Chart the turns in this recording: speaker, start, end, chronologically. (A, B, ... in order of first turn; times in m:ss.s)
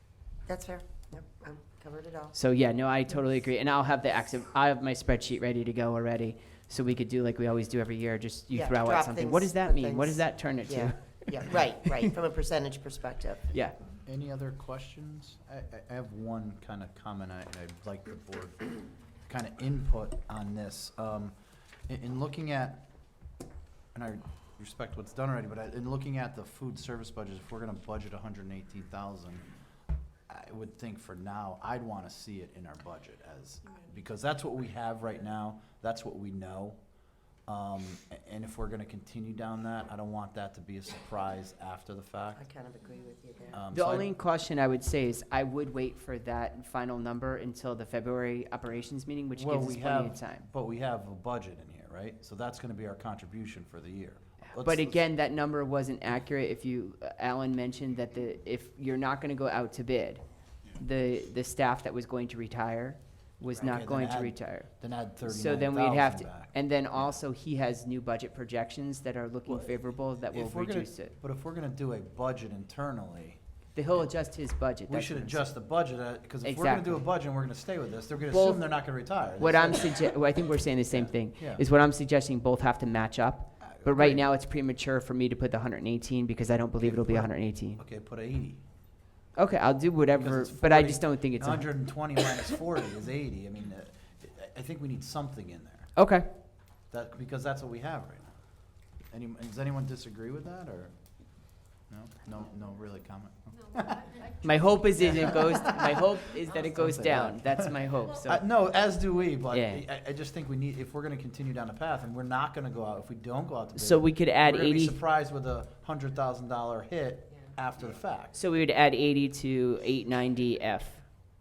0:00.5-0:02.3 A
0:02.3-0:11.8 B
0:08.5-0:13.5 A
0:13.5-0:13.8 B
0:14.0-0:21.4 C
0:21.9-0:22.8 C
0:23.9-0:29.4 C
0:30.3-0:36.8 C
0:37.5-0:42.4 C
0:42.4-0:43.6 A
0:43.5-0:44.1 C
0:43.7-0:50.5 B
0:49.4-0:55.1 C
0:54.5-1:00.2 B
1:00.8-1:11.1 B
1:03.5-1:06.6 C
1:09.5-1:13.4 C
1:13.8-1:15.5 B
1:13.9-1:14.2 C
1:14.9-1:20.2 C
1:16.4-1:17.1 B
1:18.3-1:27.8 B
1:20.9-1:21.6 C
1:23.6-1:24.2 C
1:26.8-1:28.6 C
1:29.4-1:32.2 B
1:30.1-1:35.9 C
1:36.0-1:36.3 B
1:36.9-1:38.4 C
1:39.1-1:44.2 C
1:44.4-1:48.4 B
1:45.0-1:46.0 C
1:46.8-1:47.7 C
1:48.2-1:58.4 C
1:49.5-1:49.8 B
1:53.8-1:55.0 B
1:58.3-2:01.1 B